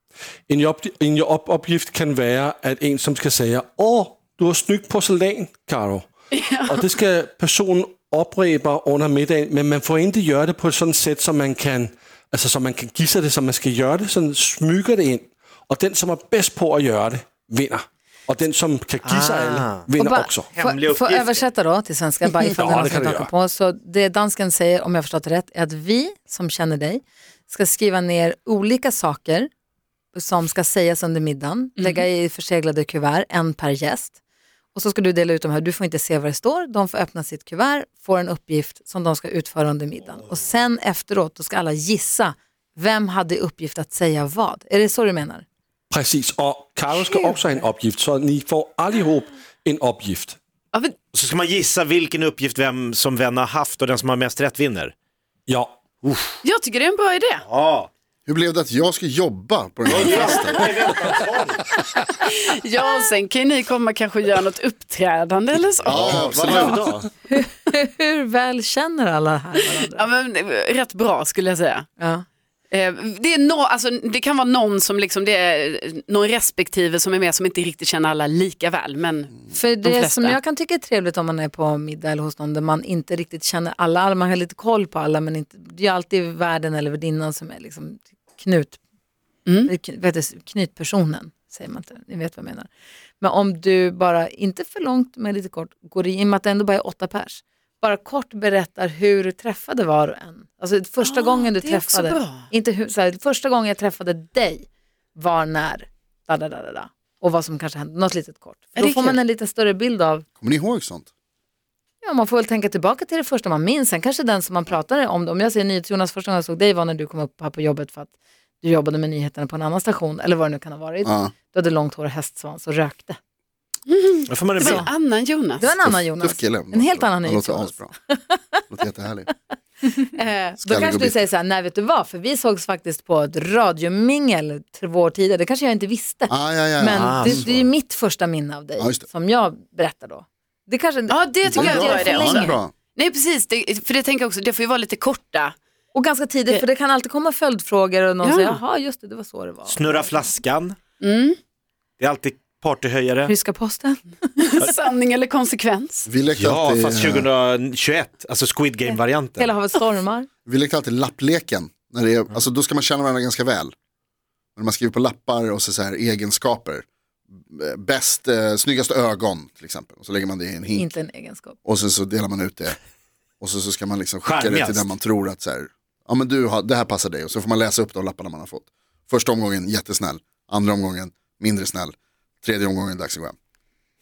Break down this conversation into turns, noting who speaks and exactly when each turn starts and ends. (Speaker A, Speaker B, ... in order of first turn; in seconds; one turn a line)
Speaker A: 0.5-6.1
Speaker B: 6.3-6.9
Speaker A: 6.6-20.5
Speaker C: 19.0-19.9
Speaker D: 20.0-29.5
Speaker C: 20.5-21.4
Speaker A: 22.4-23.3
Speaker D: 30.1-34.1
Speaker B: 31.8-32.0
Speaker D: 34.7-45.4
Speaker A: 45.9-50.4
Speaker C: 51.1-54.9
Speaker A: 55.5-55.8
Speaker C: 56.0-56.4
Speaker B: 56.4-57.4
Speaker C: 57.4-57.9
Speaker E: 58.2-61.1
Speaker C: 59.9-61.7
Speaker B: 62.2-66.1
Speaker C: 65.8-67.1
Speaker E: 65.9-66.9
Speaker D: 67.3-70.0
Speaker B: 69.8-71.9
Speaker D: 72.0-72.2
Speaker B: 72.7-80.3
Speaker D: 79.5-88.8
Speaker B: 89.5-89.7
Speaker D: 89.7-110.2
Speaker B: 101.0-102.5
Speaker B: 108.8-109.2
Speaker E: 110.4-111.1
Speaker D: 112.0-123.2
Speaker E: 121.0-121.3
Speaker B: 123.9-125.6
Speaker C: 124.3-124.9
Speaker D: 125.6-128.6
Speaker E: 125.7-127.9
Speaker E: 128.7-129.3
Speaker D: 129.8-142.6
Speaker E: 130.6-131.2
Speaker E: 136.3-137.5
Speaker C: 136.9-137.6
Speaker E: 138.8-139.1
Speaker B: 141.1-145.5
Speaker E: 141.5-142.7
Speaker D: 145.9-150.2
Speaker B: 148.2-148.6
Speaker C: 149.7-150.8
Speaker B: 151.0-151.4
Speaker C: 152.0-153.3
Speaker D: 153.3-154.4
Speaker B: 154.4-156.1
Speaker E: 156.1-157.3
Speaker C: 156.3-159.5
Speaker D: 159.4-160.3
Speaker E: 160.4-163.7
Speaker E: 164.6-166.8
Speaker E: 167.5-170.9
Speaker D: 170.7-171.6
Speaker E: 171.6-172.8
Speaker E: 173.4-183.3
Speaker C: 174.2-174.9